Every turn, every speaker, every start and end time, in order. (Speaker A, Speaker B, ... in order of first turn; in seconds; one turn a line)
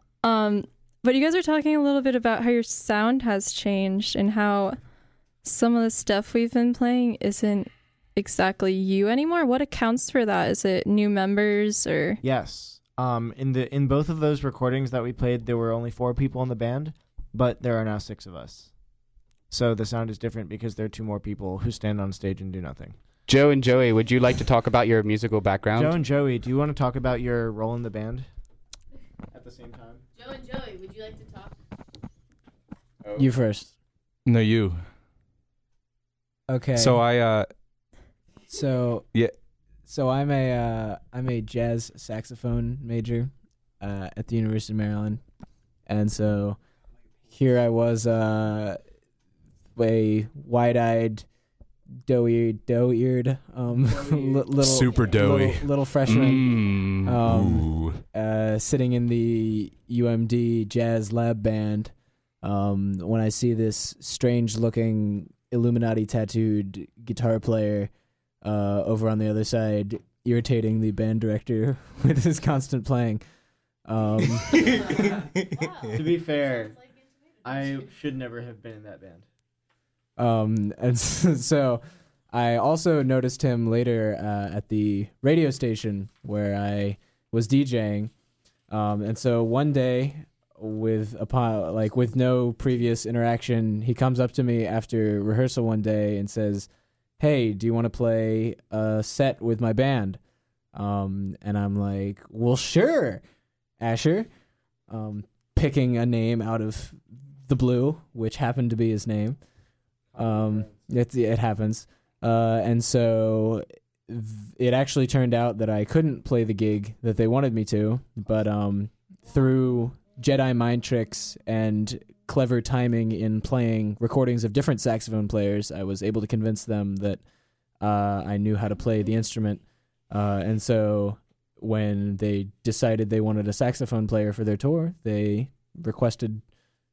Speaker A: 0.2-4.8
Speaker A: 5.4-12.2
Speaker B: 12.2-18.7
Speaker B: 19.5-23.0
Speaker C: 23.3-26.0
Speaker B: 25.7-28.3
Speaker B: 29.3-30.0
Speaker D: 30.1-31.6
Speaker E: 33.2-33.7
Speaker F: 34.3-34.8
Speaker E: 36.5-37.0
Speaker F: 36.8-37.5
Speaker E: 38.5-39.1
Speaker E: 39.9-45.2
Speaker E: 45.9-46.6
Speaker E: 47.3-48.8
Speaker E: 49.8-51.2
Speaker E: 52.1-67.9
Speaker F: 54.6-58.0
Speaker D: 54.9-55.2
Speaker C: 56.1-56.9
Speaker E: 68.4-73.2
Speaker E: 73.9-74.8
Speaker F: 74.5-75.5
Speaker D: 74.6-77.9
Speaker B: 75.9-76.8
Speaker B: 77.4-79.3
Speaker E: 80.2-88.1
Speaker E: 88.7-96.7
Speaker E: 97.2-100.2
Speaker E: 100.7-103.2
Speaker E: 103.8-104.3
Speaker E: 104.9-109.4
Speaker E: 110.2-127.2
Speaker B: 110.2-110.6
Speaker E: 127.8-136.4